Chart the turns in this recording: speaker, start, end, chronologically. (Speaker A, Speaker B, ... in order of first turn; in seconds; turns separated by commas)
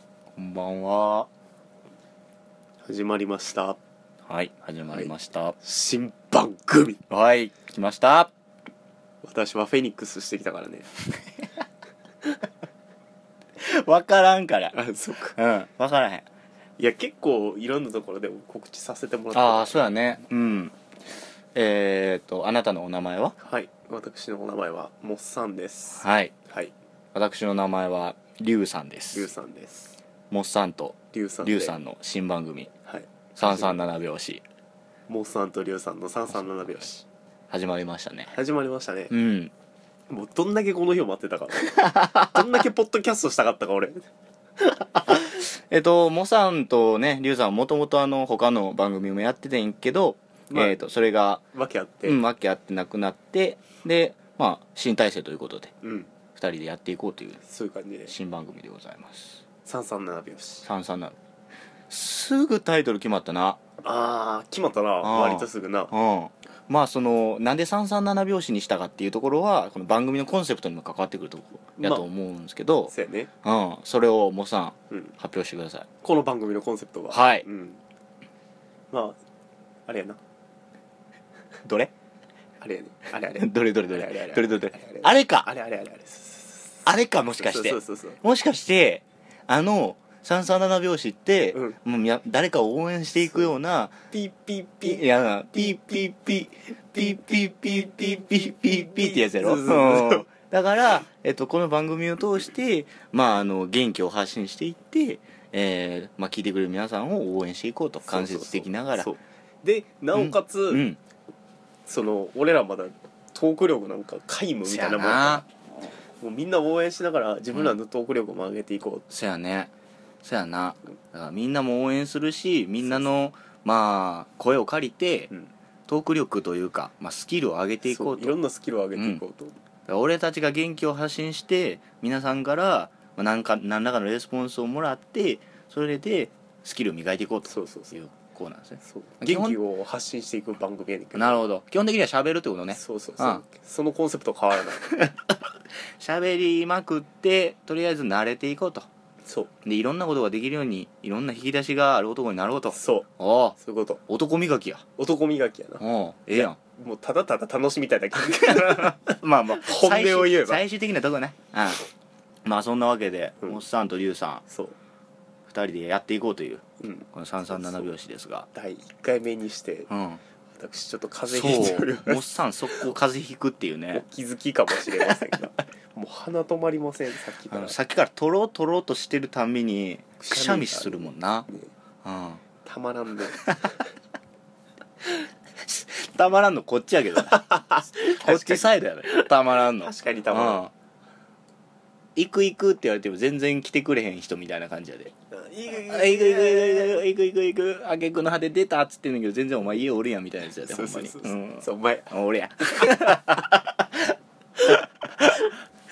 Speaker A: 0.4-1.3, Speaker B: 2.9-3.8, Speaker A: 4.3-5.6, Speaker B: 4.9-7.0, Speaker A: 7.1-8.3, Speaker B: 9.2-10.9, Speaker A: 13.6-14.8, Speaker B: 14.7-15.4, Speaker A: 15.4-16.3, Speaker B: 16.8-19.8, Speaker A: 19.3-20.8, Speaker A: 21.5-23.4, Speaker B: 23.4-26.7, Speaker A: 26.0-26.3, Speaker A: 27.1-29.3, Speaker B: 29.1-30.0, Speaker A: 30.3-32.7, Speaker B: 31.1-31.8, Speaker B: 32.9-34.0, Speaker A: 33.4-34.4, Speaker B: 35.1-37.0, Speaker A: 37.5-38.3, Speaker B: 38.3-39.1, Speaker A: 39.1-39.5, Speaker B: 40.1-44.0, Speaker A: 41.8-42.3, Speaker A: 45.0-51.4, Speaker B: 50.5-50.8, Speaker B: 51.5-52.2, Speaker A: 52.1-55.7, Speaker B: 55.8-56.1, Speaker A: 56.4-57.4, Speaker B: 57.5-58.1, Speaker A: 58.1-59.4, Speaker B: 59.6-60.7, Speaker A: 60.7-61.2, Speaker A: 61.9-63.6, Speaker B: 63.8-65.9, Speaker A: 65.0-75.9, Speaker B: 71.8-72.1, Speaker B: 72.9-73.3, Speaker B: 76.0-77.8, Speaker A: 77.1-77.5, Speaker B: 78.9-79.2, Speaker B: 79.9-80.2, Speaker A: 81.7-81.9, Speaker B: 82.6-86.8, Speaker A: 83.4-85.5, Speaker A: 86.9-94.0, Speaker B: 87.4-88.2, Speaker B: 94.1-95.0, Speaker A: 94.8-109.1, Speaker B: 98.9-100.3, Speaker B: 108.1-110.8, Speaker A: 110.1-111.0, Speaker B: 111.9-115.5, Speaker A: 114.7-115.5, Speaker B: 116.2-119.1, Speaker A: 119.1-119.7, Speaker A: 120.2-125.3, Speaker A: 125.9-128.4, Speaker B: 127.8-129.5, Speaker A: 129.0-129.2, Speaker A: 129.9-139.6, Speaker B: 137.5-138.0, Speaker B: 138.8-141.4, Speaker A: 141.1-143.4, Speaker B: 142.7-145.0, Speaker A: 144.9-145.3, Speaker A: 146.0-148.9, Speaker B: 149.3-149.5, Speaker A: 149.6-153.6, Speaker B: 152.7-154.0, Speaker A: 154.1-154.8, Speaker B: 155.0-160.6, Speaker A: 155.8-156.6, Speaker A: 158.2-161.8, Speaker A: 162.4-164.4, Speaker B: 164.5-164.8, Speaker A: 165.5-168.5, Speaker B: 166.8-167.9, Speaker B: 168.5-169.9, Speaker A: 169.9-170.2, Speaker B: 170.6-172.9, Speaker A: 171.3-174.1, Speaker B: 173.9-177.8, Speaker A: 177.5-181.5, Speaker B: 180.2-181.7, Speaker A: 182.0-182.4, Speaker B: 182.6-183.6, Speaker A: 185.6-187.5, Speaker B: 187.3-190.6, Speaker A: 188.0-190.7, Speaker A: 192.2-195.1, Speaker B: 195.3-197.0, Speaker A: 195.7-205.5, Speaker B: 200.6-202.1